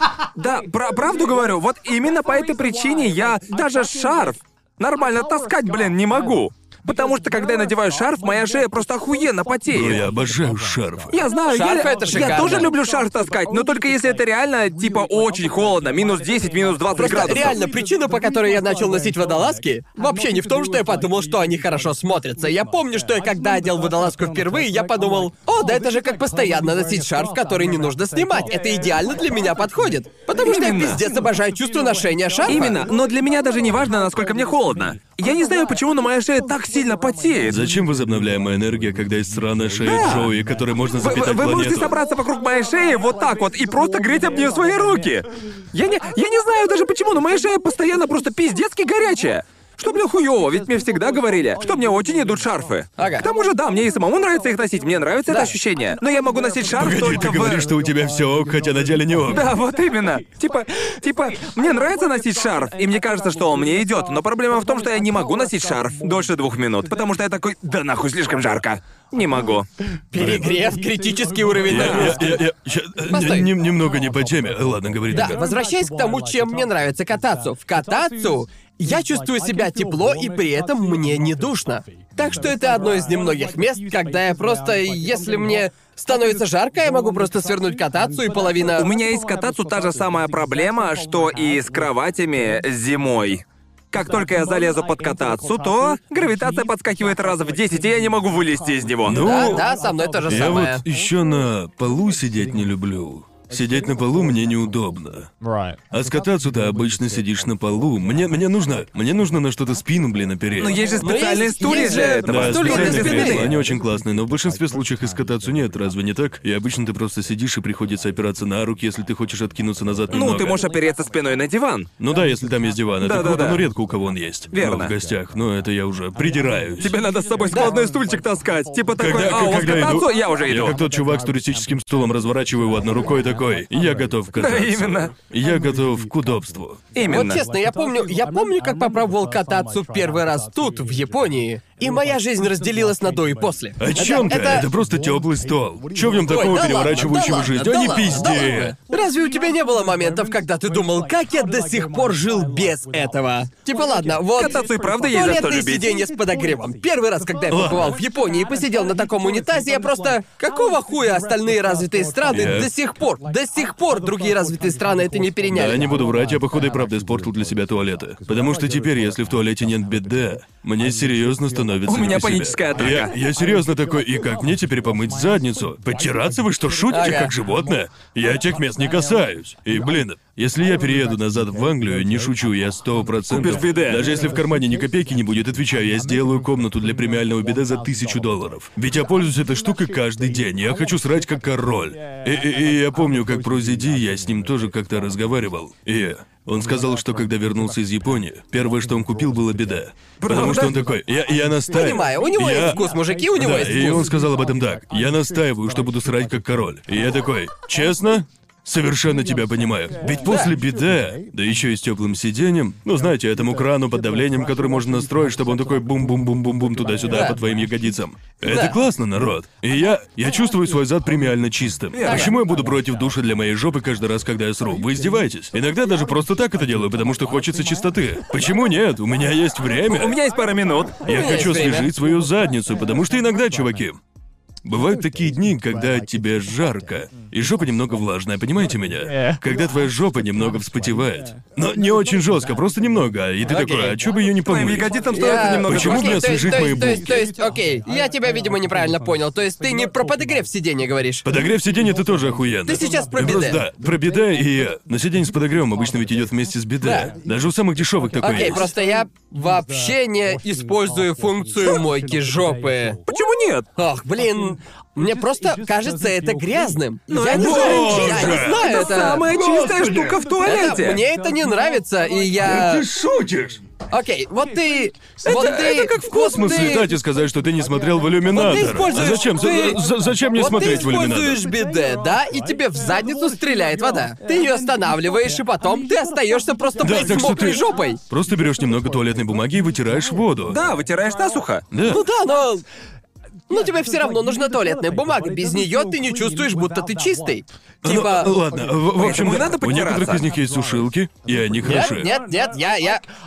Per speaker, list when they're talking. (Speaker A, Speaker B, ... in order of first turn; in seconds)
Speaker A: 0.4-10.0, 11.1-17.6, 30.4-31.0, 32.5-37.6, 39.8-40.3, 41.0-57.6, 59.3-69.7, 71.7-72.2, 88.8-99.2, 110.6-113.5, 120.1-121.9, 123.0-123.6, 124.5-124.9, 126.8-130.8, 134.4-135.1, 136.9-137.4, 154.4-155.9, 171.9-173.1, 183.3-184.1, 200.2-200.9, 221.9-222.3, 229.8-231.0, 244.4-246.2, 263.1-263.7, 267.1-271.0, 275.2-276.4, 290.5-291.6, 299.0-300.2
Speaker B: 9.7-11.2, 37.5-42.0, 56.8-59.5, 70.2-70.5, 71.7-75.4, 99.1-99.7, 100.3-105.3, 105.9-110.8, 112.3-120.6, 122.0-127.0, 129.0-136.8, 143.8-148.8, 157.5-157.9, 162.3-162.7, 165.5-202.8, 203.3-230.2, 231.1-234.0, 234.6-245.0, 245.7-247.3, 251.2-258.7, 267.3-270.2, 272.4-273.6, 275.3-281.4, 286.8-290.6, 291.7-292.0, 297.8-302.1
Speaker C: 11.5-12.7, 17.0-32.8, 53.0-53.3, 55.3-55.5, 70.1-72.4, 73.1-73.5, 75.1-88.9, 99.1-100.8, 111.0-113.5, 137.1-144.7, 146.2-165.9, 176.9-177.3, 201.7-204.1, 210.2-210.5, 217.1-217.4, 218.4-218.8, 222.1-222.3, 231.1-231.9, 243.5-244.0, 245.1-251.3, 252.7-253.6, 256.8-257.1, 258.2-263.0, 263.8-269.3, 270.4-272.9, 273.9-276.9, 278.3-279.8, 280.3-288.0, 291.9-292.6, 293.5-298.4, 301.6-303.0